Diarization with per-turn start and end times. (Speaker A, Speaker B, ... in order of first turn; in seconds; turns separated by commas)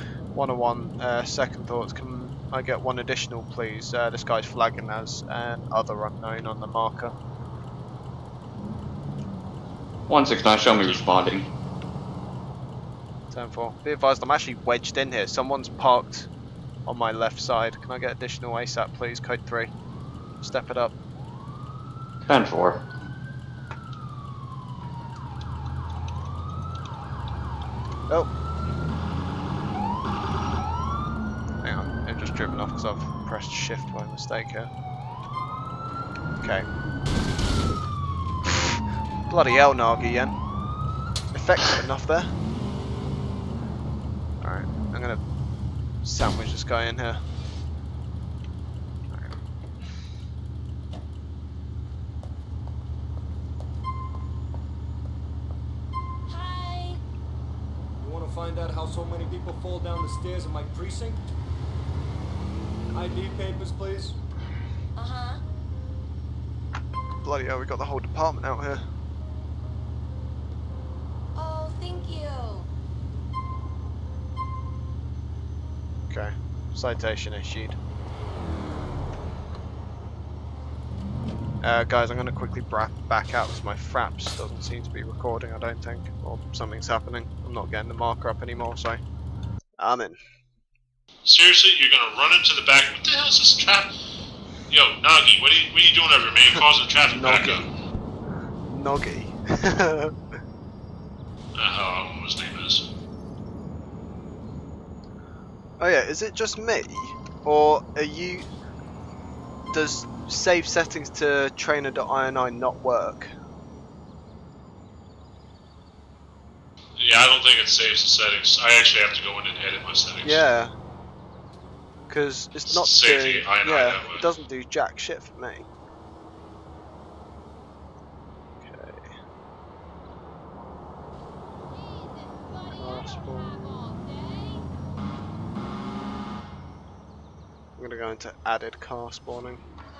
Speaker A: 0.3-7.1, Speaker B: 10.1-11.5, Speaker C: 10.6-11.3, Speaker A: 13.3-16.3, Speaker A: 16.9-19.7, Speaker A: 20.4-20.9, Speaker B: 22.3-22.8, Speaker A: 31.6-34.7, Speaker A: 38.5-40.4, Speaker A: 41.3-42.3, Speaker A: 44.4-45.2, Speaker A: 46.0-47.2, Speaker A: 49.1-49.4, Speaker D: 56.3-57.0, Speaker E: 58.0-61.2, Speaker E: 62.9-64.2, Speaker D: 65.0-65.4, Speaker A: 67.2-68.8, Speaker D: 71.3-72.7, Speaker A: 76.1-77.8, Speaker A: 81.6-89.0, Speaker A: 89.8-90.2, Speaker C: 91.2-93.9, Speaker C: 94.7-97.7, Speaker A: 97.1-97.7, Speaker A: 98.7-100.2, Speaker C: 101.6-102.9, Speaker A: 105.8-108.5, Speaker A: 109.7-113.3, Speaker C: 117.0-120.5, Speaker A: 120.2-120.7, Speaker A: 122.1-125.7, Speaker C: 122.7-124.3, Speaker A: 128.6-129.2, Speaker D: 131.8-134.7, Speaker A: 132.7-133.6, Speaker A: 137.8-139.6